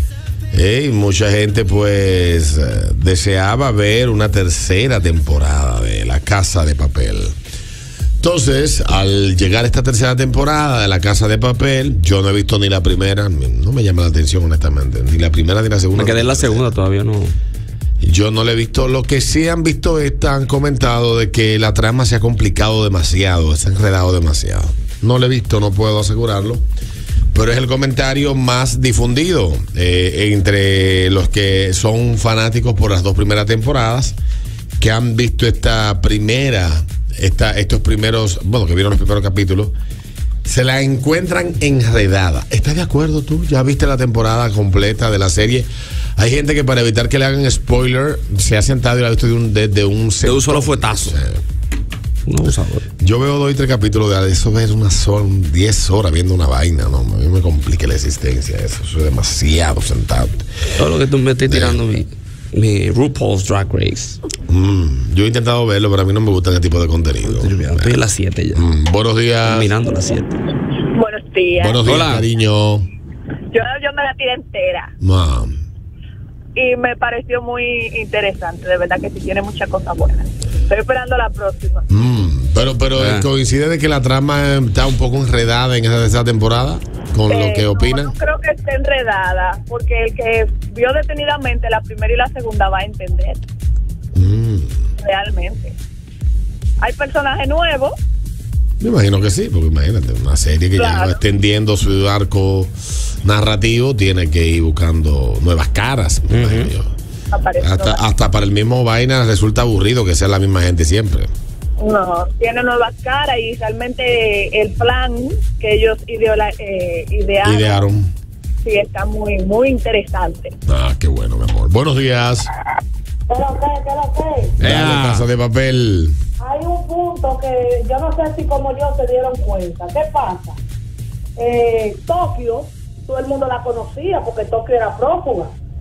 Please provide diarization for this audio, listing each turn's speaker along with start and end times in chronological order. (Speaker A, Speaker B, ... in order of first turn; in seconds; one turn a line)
Speaker A: 0.5-7.3
Speaker A: 8.2-16.7
Speaker B: 15.9-17.3
Speaker A: 18.0-26.6
Speaker A: 27.3-34.1
Speaker A: 34.8-39.7
Speaker A: 40.4-51.4
Speaker B: 50.2-51.1
Speaker B: 52.3-52.8
Speaker A: 53.0-60.4
Speaker B: 60.7-64.2
Speaker A: 61.5-61.8
Speaker A: 64.5-68.0
Speaker B: 67.2-68.6
Speaker A: 68.5-69.7
Speaker B: 69.5-70.3
Speaker C: 70.9-71.8
Speaker A: 71.6-72.9
Speaker B: 71.8-72.2
Speaker C: 73.5-74.9
Speaker A: 75.0-75.6
Speaker C: 76.5-81.8
Speaker A: 81.9-88.1
Speaker B: 83.0-83.3
Speaker C: 87.3-93.4
Speaker A: 94.1-94.7
Speaker C: 95.0-95.7
Speaker C: 96.8-97.9
Speaker A: 98.8-106.9
Speaker C: 100.8-101.2
Speaker B: 106.3-106.7
Speaker C: 107.3-108.0
Speaker A: 107.6-111.3
Speaker C: 111.8-117.8
Speaker A: 117.4-118.1
Speaker C: 118.6-120.5
Speaker A: 120.7-122.5
Speaker D: 123.3-124.5
Speaker B: 124.6-125.2
Speaker A: 124.6-126.1
Speaker D: 126.4-130.6
Speaker D: 131.4-135.5